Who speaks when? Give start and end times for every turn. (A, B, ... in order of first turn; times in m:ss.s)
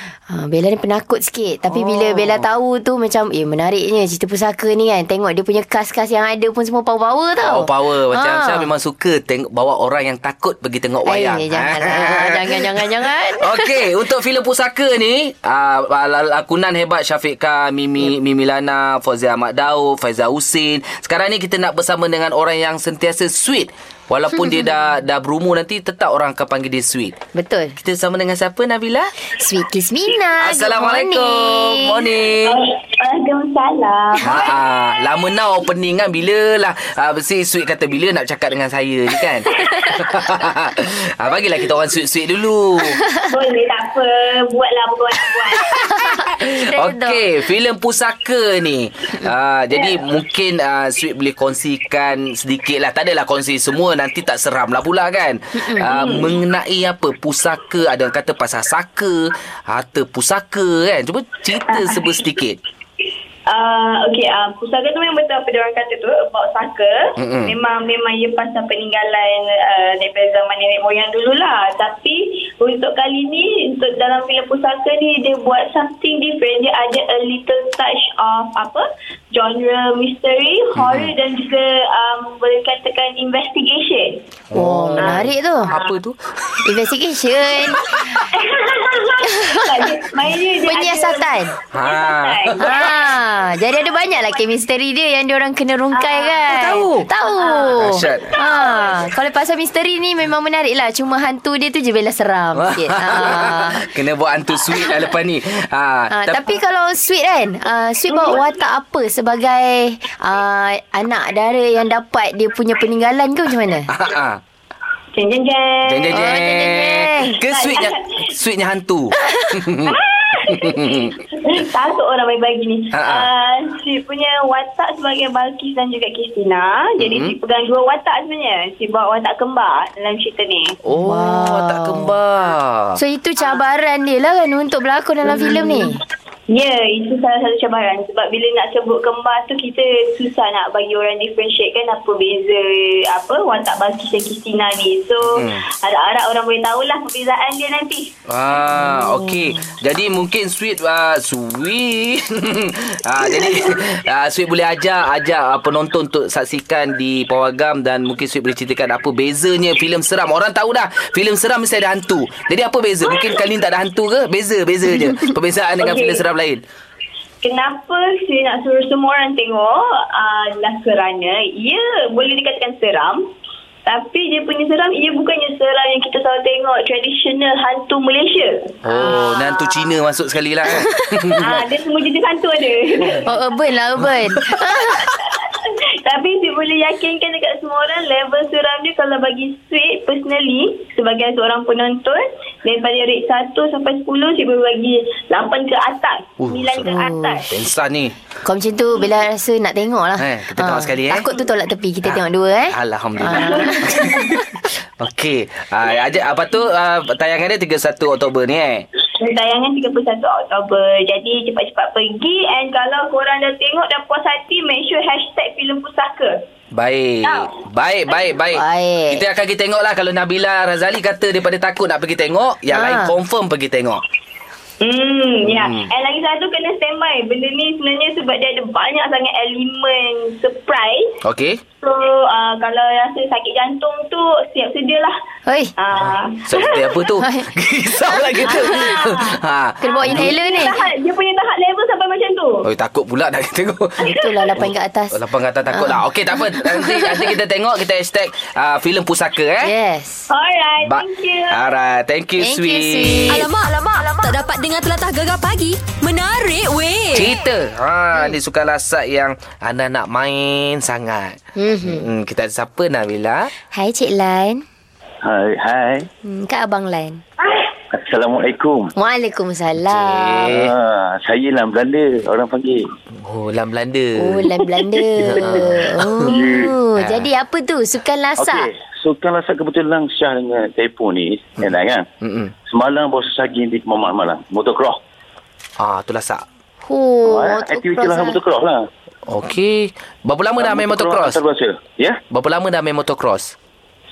0:00.3-0:08.7 A
0:01.7-0:02.4 B
0:07.4-0:27.2 B
0:11.1-0:13.8 A
0:27.3-0:27.8 A
0:27.8-0:29.1 B
0:29.4-0:32.0 A
0:30.4-0:32.6 B
0:32.4-0:34.7 C
0:34.2-0:43.0 B
0:43.3-0:45.8 C
0:45.9-0:47.2 A
0:46.3-1:02.6 B
0:55.6-0:55.9 A
0:55.9-0:56.4 C
1:01.7-1:02.2 C
1:03.5-1:24.2 C
1:07.2-1:07.6 B
1:20.8-1:21.1 B
1:24.5-1:26.2 B
1:24.5-1:25.7 A
1:25.0-1:26.0 C
1:26.6-1:27.8 A
1:27.6-1:34.5 C
1:30.6-1:31.5 A
1:31.7-1:32.9 B
1:32.6-1:43.8 A
1:35.9-1:39.1 C
1:36.5-1:37.1 B
1:37.8-1:38.3 B
1:42.6-1:46.6 B
1:46.1-1:53.9 A
1:48.1-1:48.4 C
1:53.9-1:54.4 B
1:55.1-1:56.5 C
1:55.8-2:01.2 B
1:56.1-1:57.4 A
1:57.4-1:58.3 C
1:59.8-2:10.8 C
2:02.9-2:03.3 B
2:07.0-2:07.4 B
2:10.8-2:13.0 B
2:11.0-2:12.1 A
2:13.0-2:16.0 A
2:15.3-2:16.0 C
2:16.5-2:28.1 C
2:25.3-2:25.6 B
2:28.3-2:46.6 B
2:28.8-2:29.2 A
2:43.1-2:43.4 C
2:45.8-2:46.2 C
2:47.4-2:53.3 C
2:53.9-3:00.0 C
2:58.8-3:01.6 B
3:00.8-3:03.6 C
3:03.2-3:05.0 A
3:04.5-3:17.6 C
3:16.4-3:16.9 B
3:16.9-3:17.4 A
3:17.5-3:18.2 B
3:18.4-3:23.9 A
3:20.2-3:21.3 B
3:22.0-3:28.9 B
3:23.3-3:24.4 C
3:29.1-3:36.4 C
3:36.7-3:44.0 B
3:37.2-3:37.6 C
3:38.5-3:39.2 A
3:42.7-3:43.2 A
3:44.8-3:51.2 C
3:45.4-3:45.9 B
3:51.2-3:51.6 B
3:51.8-3:55.2 C
3:55.5-3:55.7 A
3:55.8-3:57.1 C
3:56.0-4:00.3 B
3:57.2-3:57.5 A
3:58.1-3:58.9 A
3:58.3-4:02.7 C
3:59.8-4:00.8 A
4:02.6-4:04.0 B
4:04.0-4:05.2 A
4:04.0-4:04.5 C
4:04.6-4:09.7 B
4:05.7-4:07.2 A
4:09.6-4:10.3 A
4:10.3-4:11.7 C
4:10.8-4:13.4 B
4:12.4-4:13.4 A
4:13.3-4:17.3 D
4:17.1-4:23.5 B
4:21.6-4:22.1 A
4:23.7-4:24.6 A
4:25.2-4:26.1 E
4:26.2-4:27.2 A
4:27.9-4:28.9 E
4:29.0-4:30.6 A
4:29.8-4:30.7 B
4:30.5-4:32.9 E
4:33.1-4:34.5 B
4:34.2-4:38.7 A
4:35.2-4:36.3 B
4:36.2-4:36.7 E
4:37.0-4:37.3 B
4:38.4-4:42.0 E
4:42.2-4:42.5 B
4:42.7-4:45.0 E
4:45.8-4:46.4 B
4:46.8-4:48.4 A
4:47.3-4:48.8 E
4:49.3-4:51.4 B
4:50.6-4:52.2 E
4:52.3-4:53.5 B